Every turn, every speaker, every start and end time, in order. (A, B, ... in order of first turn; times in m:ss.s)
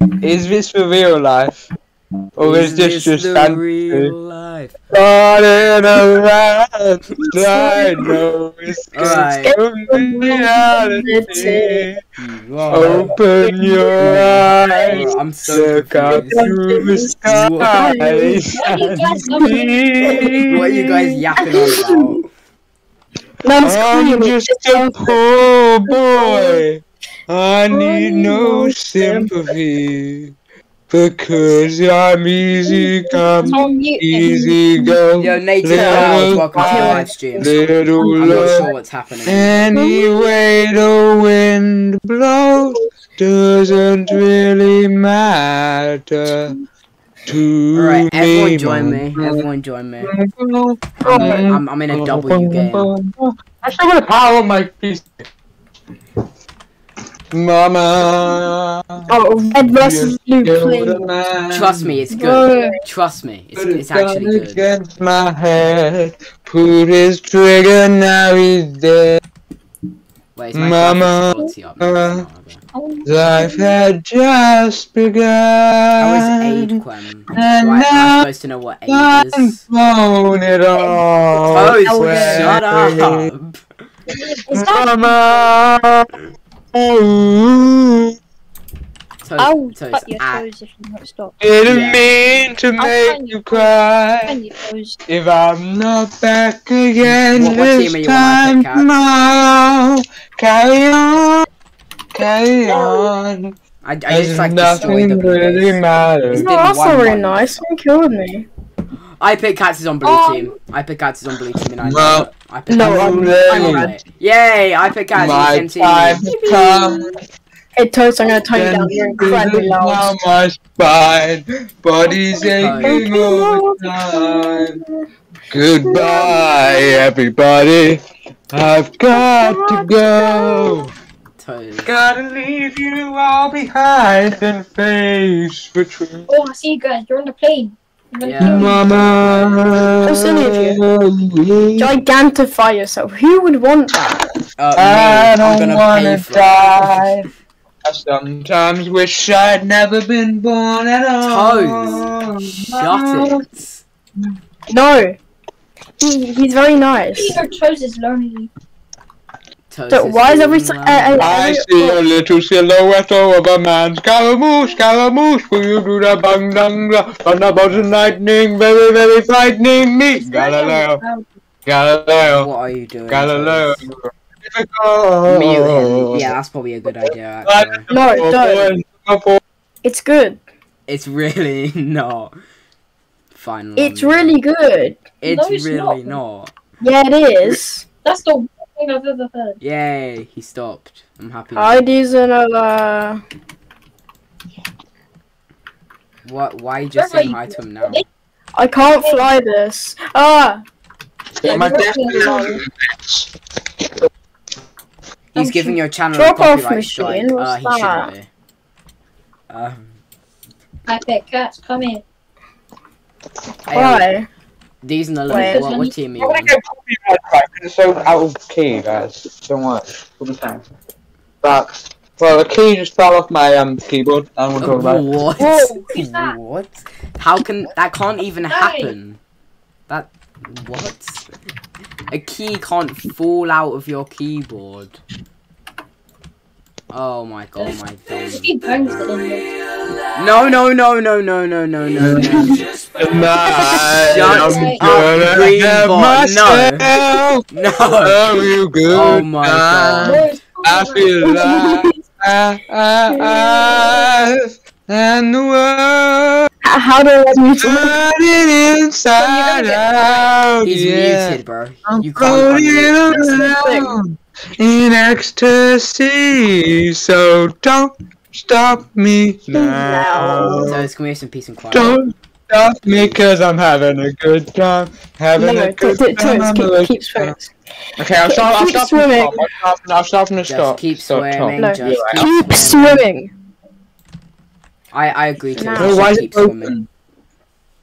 0:00.2-0:01.7 A
0:02.4-0:04.1 A
0:02.4-0:04.7 B
0:04.9-0:12.0 A
0:07.2-0:08.2 C
0:08.9-0:09.6 B
0:09.2-0:11.8 C
0:12.2-0:13.2 B
0:12.7-0:21.7 A
0:13.4-0:15.0 C
0:14.0-0:16.5 B
0:16.1-0:18.4 C
0:17.2-0:17.9 B
0:18.5-0:20.4 D
0:19.2-0:20.4 C
0:20.5-0:22.3 B
0:21.4-0:22.0 C
0:23.4-0:25.2 C
0:23.6-0:30.3 A
0:25.9-0:26.6 C
0:27.7-0:29.3 C
0:30.9-0:38.7 A
0:33.4-0:34.9 D
0:35.2-0:37.5 B
0:35.7-0:38.7 C
0:38.1-0:39.7 B
0:39.2-0:46.6 A
0:40.0-0:40.2 C
0:47.2-0:49.4 A
0:47.7-0:50.1 B
0:50.0-0:55.3 A
0:51.0-0:52.9 B
0:51.0-0:51.5 C
0:57.3-1:02.0 A
0:59.1-1:01.0 C
1:01.5-1:04.6 B
1:02.1-1:02.8 C
1:02.4-1:02.7 D
1:03.6-1:09.2 A
1:10.3-1:12.6 B
1:10.5-1:12.2 A
1:12.7-1:13.8 D
1:13.0-1:16.8 A
1:16.0-1:19.6 B
1:17.3-1:18.3 A
1:18.9-1:23.3 A
1:21.5-1:23.6 B
1:21.9-1:22.4 D
1:24.2-1:25.6 D
1:24.5-1:26.1 A
1:26.7-1:28.2 A
1:29.2-1:30.4 B
1:29.4-1:31.3 D
1:31.4-1:34.3 A
1:31.7-1:32.0 B
1:32.8-1:35.0 D
1:35.1-1:41.5 A
1:37.0-1:38.9 B
1:42.1-1:43.6 A
1:42.7-1:43.1 D
1:43.8-1:47.6 B
1:44.1-1:46.5 A
1:46.3-1:48.5 C
1:49.2-1:56.2 B
1:50.0-1:50.5 D
1:51.8-1:53.9 A
1:52.7-1:54.0 C
1:55.1-1:57.1 A
1:56.4-1:57.0 D
1:57.8-2:00.2 C
1:58.4-2:04.8 A
2:02.1-2:03.4 D
2:02.6-2:03.0 B
2:02.9-2:03.7 C
2:05.5-2:10.9 A
2:05.9-2:06.9 D
2:06.1-2:06.4 C
2:11.4-2:11.9 B
2:11.8-2:16.3 A
2:16.3-2:18.8 D
2:18.2-2:20.0 B
2:18.4-2:21.9 A
2:20.0-2:20.8 C
2:21.8-2:24.1 C
2:24.6-2:27.1 B
2:24.8-2:27.3 A
2:27.8-2:33.4 A
2:31.2-2:32.1 B
2:32.7-2:33.1 D
2:32.7-2:33.8 B
2:34.7-2:35.2 C
2:36.0-2:37.4 C
2:37.1-2:38.5 D
2:39.7-2:41.4 B
2:39.9-2:42.0 C
2:41.2-2:51.0 A
2:47.7-2:48.2 B
2:50.2-2:51.2 D
2:51.6-2:52.5 A
2:52.2-2:53.8 B
2:53.1-2:56.4 A
2:55.3-2:57.8 B
2:57.0-2:59.4 A
2:57.9-2:58.7 C
2:59.8-3:00.4 C
3:00.9-3:02.3 B
3:03.3-3:04.4 B
3:03.8-3:05.0 C
3:05.2-3:06.5 B
3:05.2-3:06.2 D
3:06.8-3:07.8 C
3:08.0-3:09.6 D
3:09.6-3:11.8 B
3:11.6-3:13.2 C
3:16.2-3:18.0 B
3:17.0-3:18.0 D
3:18.5-3:20.6 C
3:19.0-3:19.3 D
3:21.4-3:23.3 A
3:21.4-3:22.6 D
3:25.4-3:25.8 D
3:25.4-3:28.3 B
3:26.1-3:28.1 C
3:29.5-3:29.9 B
3:30.9-3:32.0 D
3:33.7-3:34.1 B
3:33.7-3:34.3 C
3:34.8-3:36.6 B
3:35.3-3:35.6 C
3:35.3-3:35.9 D
3:36.2-3:40.6 A
3:41.4-3:45.0 A
3:44.6-3:49.2 B
3:45.4-3:46.3 D
3:48.5-3:48.9 D
3:49.9-3:51.2 B
3:52.1-3:55.0 B
3:56.9-3:59.1 B
3:57.6-4:00.0 D
4:00.1-4:02.6 B
4:02.0-4:07.4 A
4:02.4-4:05.2 D
4:04.0-4:06.9 B
4:07.5-4:08.2 B
4:08.0-4:16.5 A
4:08.9-4:10.2 B
4:10.0-4:11.5 D
4:11.2-4:11.9 C
4:16.6-4:18.0 C
4:17.3-4:30.8 A
4:19.1-4:20.3 D
4:20.6-4:23.4 B
4:23.1-4:24.0 C
4:29.5-4:30.8 C
4:30.6-4:32.0 B
4:31.7-4:37.4 A
4:32.9-4:33.2 B
4:35.4-4:37.5 C
4:38.0-4:42.2 A
4:38.3-4:39.5 C
4:40.5-4:43.0 B
4:41.6-4:43.3 C
4:44.9-4:46.7 B
4:45.6-4:46.1 C
4:45.6-4:46.9 A